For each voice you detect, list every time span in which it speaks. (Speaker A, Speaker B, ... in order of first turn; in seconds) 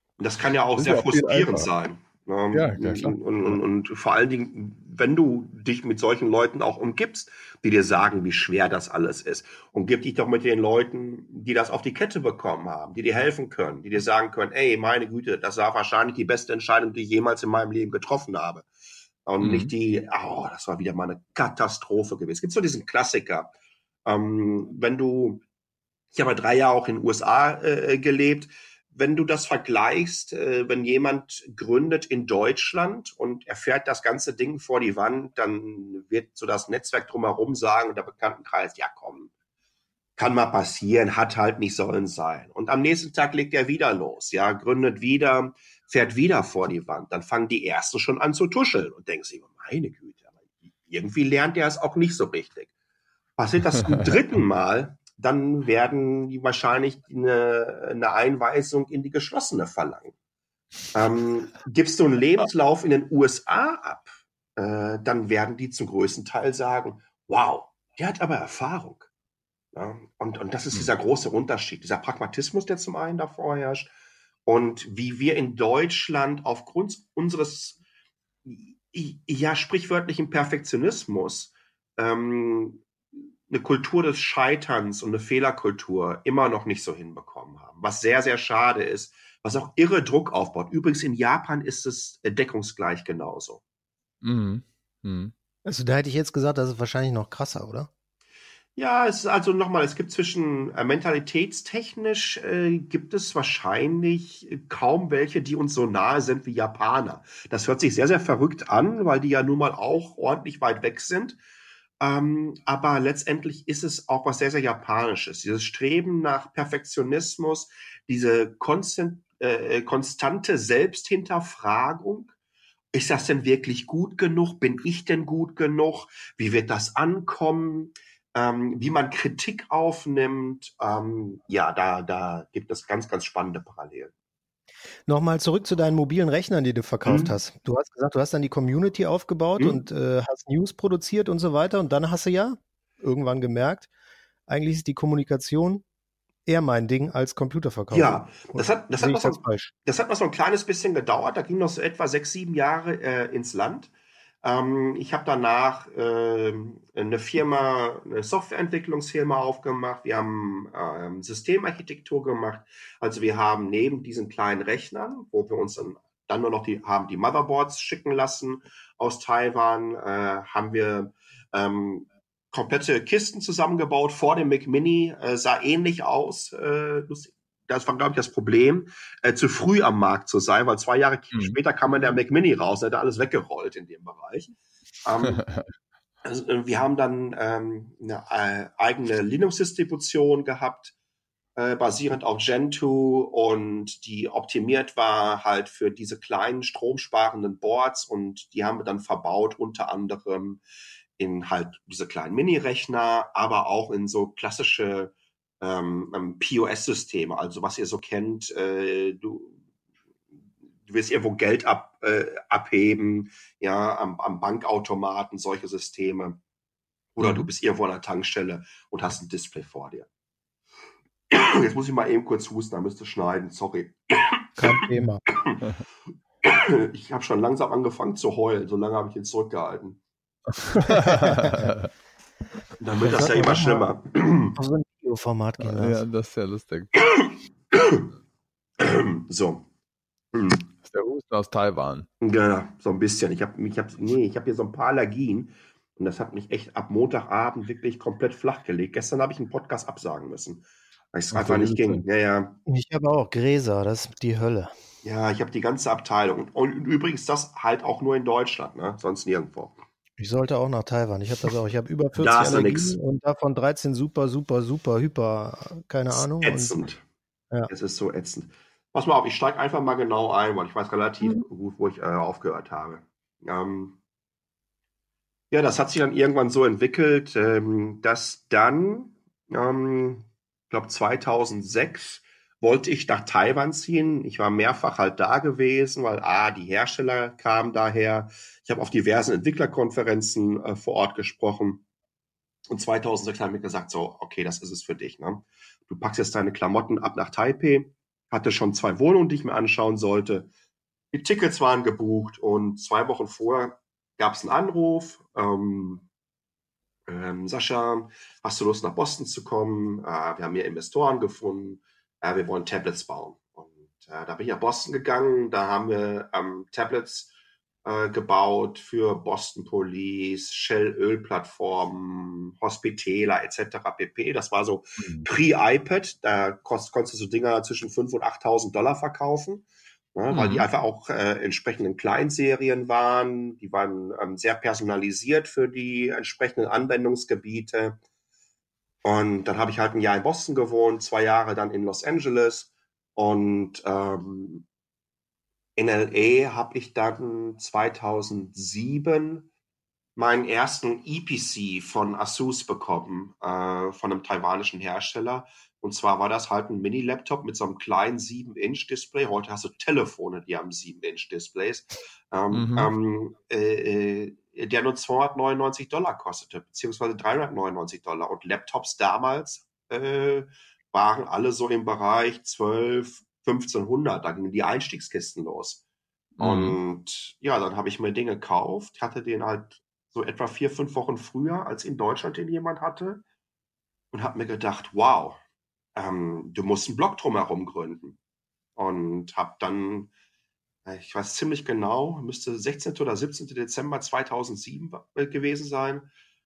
Speaker A: 0.2-18.7, 19.3-23.5, 24.1-25.4, 26.1-39.3, 40.2-50.2, 50.9-52.7, 53.4-60.1, 60.9-69.1, 69.7-73.9, 74.5-77.8, 78.5-82.8, 83.5-93.6, 98.8-111.4, 112.0-122.3, 122.9-134.1, 137.1-137.4, 147.9-153.9, 154.4-185.4, 186.2-190.9, 191.6-200.6, 201.2-209.6, 210.8-216.4, 217.2-220.1, 221.3-224.6, 225.3-225.6, 226.4-230.0, 232.8-234.6, 237.1-238.1, 238.8-239.7, 240.3-240.7, 242.2-252.6, 255.0-259.8, 262.1-263.0, 266.1-267.0, 267.7-274.0, 275.5-291.8, 292.7-300.5, 301.1-306.1, 307.1-317.3, 317.9-338.0, 339.0-344.7, 345.8-349.5, 350.2-375.8, 376.4-383.2, 384.1-385.4, 386.0-388.2, 388.8-390.1, 390.9-396.1
Speaker B: 0.8-1.7, 2.5-3.6, 19.4-19.7, 94.2-95.3, 181.3-181.6, 185.3-185.6, 217.2-217.5, 230.7-231.9, 235.6-237.1, 240.8-242.1, 251.3-252.0, 325.0-325.3, 330.3-330.6, 362.5-362.9, 376.4-376.8
Speaker C: 95.7-97.9, 135.1-143.9, 144.5-145.8, 146.5-149.7, 224.6-225.2, 230.9-231.7, 233.1-233.9, 234.5-236.0, 252.7-254.7, 260.2-266.8